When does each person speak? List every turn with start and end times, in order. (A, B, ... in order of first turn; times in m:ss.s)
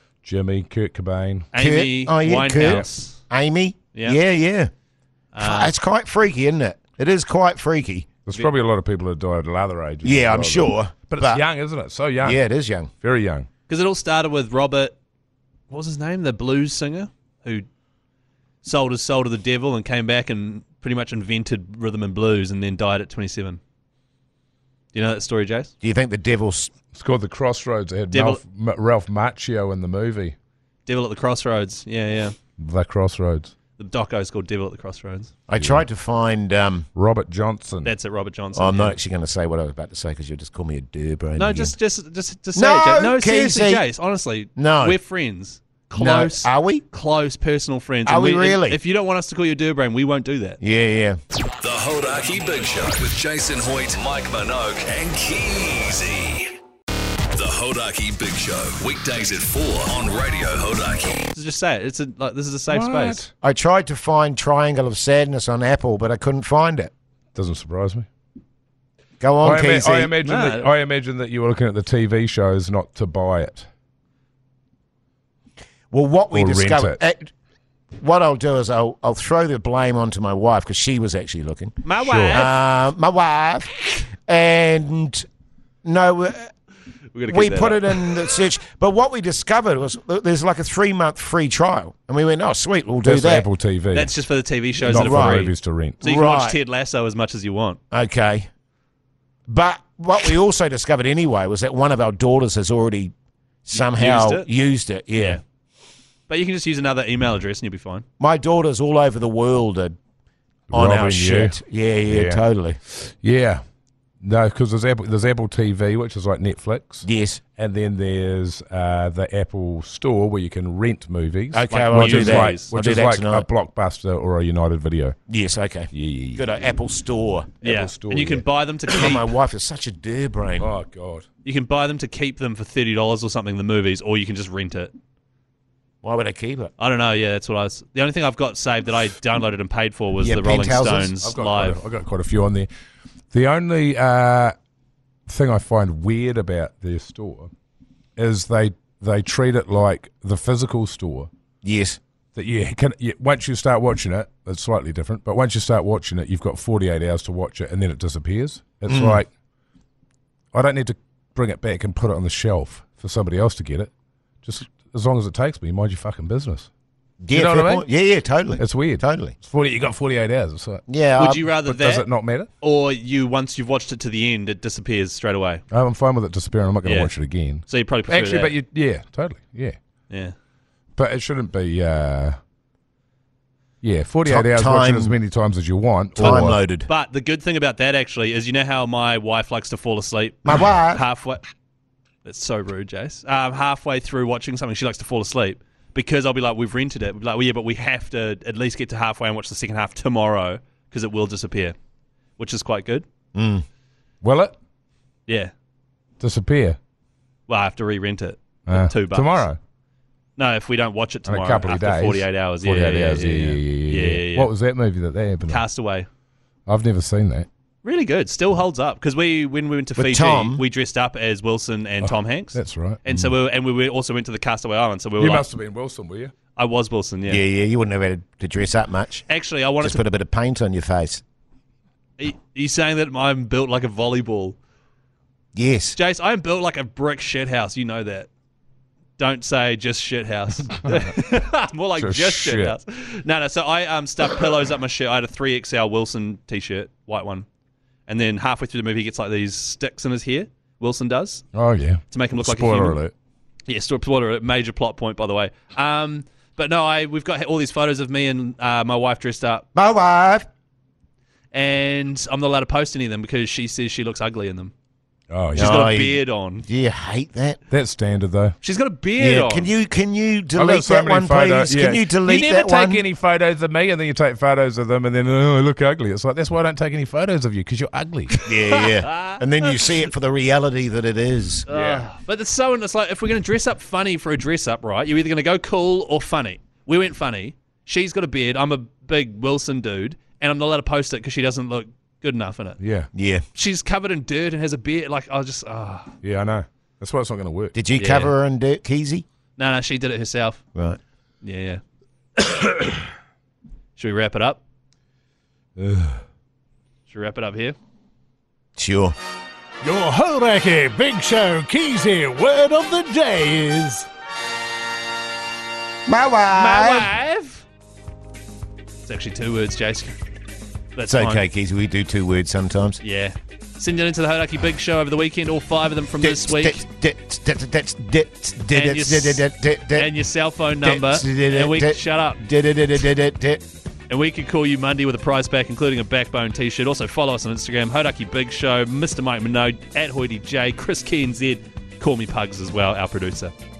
0:00.2-0:01.5 A
0:01.5-0:03.2 B
0:01.6-0:04.7 C
0:03.9-0:04.2 B
0:05.3-0:05.7 B
0:05.4-0:08.1 C
0:08.2-0:12.4 A
0:10.0-0:11.4 C
0:12.2-0:12.9 C
0:13.0-0:13.5 A
0:13.7-0:14.9 B
0:15.7-0:17.7 B
0:18.6-0:23.6 B
0:24.9-0:25.7 B
0:25.8-0:26.7 C
0:26.9-0:30.3 A
0:28.1-0:28.4 B
0:30.8-0:32.4 B
0:32.6-0:33.5 A
0:33.8-0:35.3 B
0:35.5-0:36.9 C
0:35.6-0:35.8 A
0:36.9-0:37.9 A
0:37.8-0:39.0 B
0:38.5-0:41.7 C
0:41.4-0:50.6 B
0:42.5-0:43.8 C
0:44.6-0:45.0 C
0:45.9-0:46.8 C
0:48.0-0:48.8 C
0:50.6-0:51.2 C
0:51.6-0:56.5 D
0:57.3-1:01.3 D
1:01.3-1:03.3 B
1:02.7-1:03.3 A
1:03.4-1:06.9 C
1:07.3-1:08.1 A
1:09.2-1:10.1 C
1:09.4-1:13.7 A
1:10.2-1:10.7 B
1:15.9-1:17.3 C
1:16.3-1:17.0 A
1:18.0-1:21.8 C
1:21.8-1:22.5 B
1:22.0-1:22.4 A
1:22.3-1:25.2 C
1:25.8-1:26.5 C
1:27.1-1:28.3 B
1:27.3-1:33.5 C
1:33.0-1:34.1 A
1:33.9-1:37.8 B
1:34.8-1:35.5 C
1:34.8-1:36.0 A
1:36.0-1:36.6 C
1:37.9-1:38.5 C
1:39.5-1:43.1 C
1:43.6-1:45.4 C
1:43.7-1:44.5 B
1:45.1-1:45.4 B
1:46.3-1:48.0 B
1:48.2-1:50.0 C
1:50.7-1:53.6 A
1:50.7-1:52.8 C
1:54.2-2:05.2 A
1:57.0-1:57.4 C
2:01.5-2:03.5 C
2:01.7-2:02.7 B
2:05.3-2:07.5 C
2:05.9-2:06.5 A
2:07.6-2:08.4 A
2:07.6-2:09.3 B
2:08.9-2:10.7 C
2:10.6-2:11.2 A
2:11.4-2:14.9 B
2:16.0-2:16.7 C
2:16.8-2:21.8 B
2:20.2-2:21.1 C
2:21.1-2:22.7 A
2:23.3-2:24.5 A
2:25.3-2:27.5 A
2:28.2-2:31.3 A
2:31.6-2:32.0 C
2:32.3-2:39.3 A
2:38.9-2:39.2 C
2:40.5-2:43.9 A
2:44.4-2:46.7 A
2:47.2-2:49.3 C
2:47.3-2:47.9 A
2:48.6-2:50.8 A
2:50.9-2:51.5 C
2:51.2-2:52.1 B
2:51.5-2:52.5 A
2:52.6-2:55.6 B
2:55.7-2:59.8 A
2:56.8-2:57.1 B
2:57.7-2:58.6 B
3:00.1-3:00.3 B
3:01.0-3:02.4 A
3:03.8-3:06.6 A
3:04.2-3:05.2 C
3:06.2-3:06.9 C
3:06.2-3:11.4 B
3:10.4-3:11.0 C
3:12.2-3:21.8 B
3:22.4-3:23.0 B
3:23.3-3:23.6 C
3:24.2-3:24.5 A
3:25.3-3:25.5 B
3:26.2-3:26.8 A
3:27.5-3:29.5 B
3:28.7-3:29.6 A
3:30.4-3:34.5 B
3:31.2-3:35.6 A
3:35.5-3:36.1 B
3:36.7-3:37.5 A
3:37.8-3:45.5 B
3:40.0-3:40.6 C
3:42.0-3:43.3 A
3:45.2-3:46.3 A
3:46.6-3:47.4 B
3:47.3-3:49.2 C
3:49.3-3:50.0 B
3:49.8-3:51.2 C
3:52.2-3:54.6 B
3:55.5-3:56.0 C
3:56.0-3:58.3 B
3:59.2-4:07.5 B
4:02.0-4:02.8 A
4:08.1-4:11.4 B
4:11.5-4:13.1 A
4:12.1-4:13.0 B
4:13.7-4:19.6 B
4:19.7-4:20.4 C
4:21.5-4:24.7 B
4:25.3-4:25.9 A
4:25.5-4:26.6 B
4:25.6-4:27.6 C
4:27.7-4:28.6 A
4:28.6-4:29.7 B
4:29.2-4:33.0 C
4:30.5-4:38.4 A
4:38.4-4:41.6 C
4:38.7-4:39.4 B
4:41.7-4:42.1 A
4:41.7-4:52.8 B
4:52.8-4:53.1 A
4:53.1-4:53.4 C
4:53.5-4:56.1 B
4:56.2-4:57.8 A
4:57.7-4:59.2 C
4:57.9-4:58.3 B
4:59.6-5:00.6 B
5:01.4-5:01.8 B
5:04.0-5:04.6 B
5:05.8-5:06.2 A
5:07.1-5:07.8 B
5:08.8-5:09.1 C
5:09.8-5:14.0 A
5:16.0-5:17.1 C
5:16.5-5:17.6 B
5:19.0-5:20.2 B
5:20.9-5:21.5 B
5:21.1-5:23.0 C
5:23.0-5:26.8 B
5:26.2-5:30.1 C
5:28.7-5:32.4 B
5:30.8-5:33.6 C
5:34.1-5:43.5 B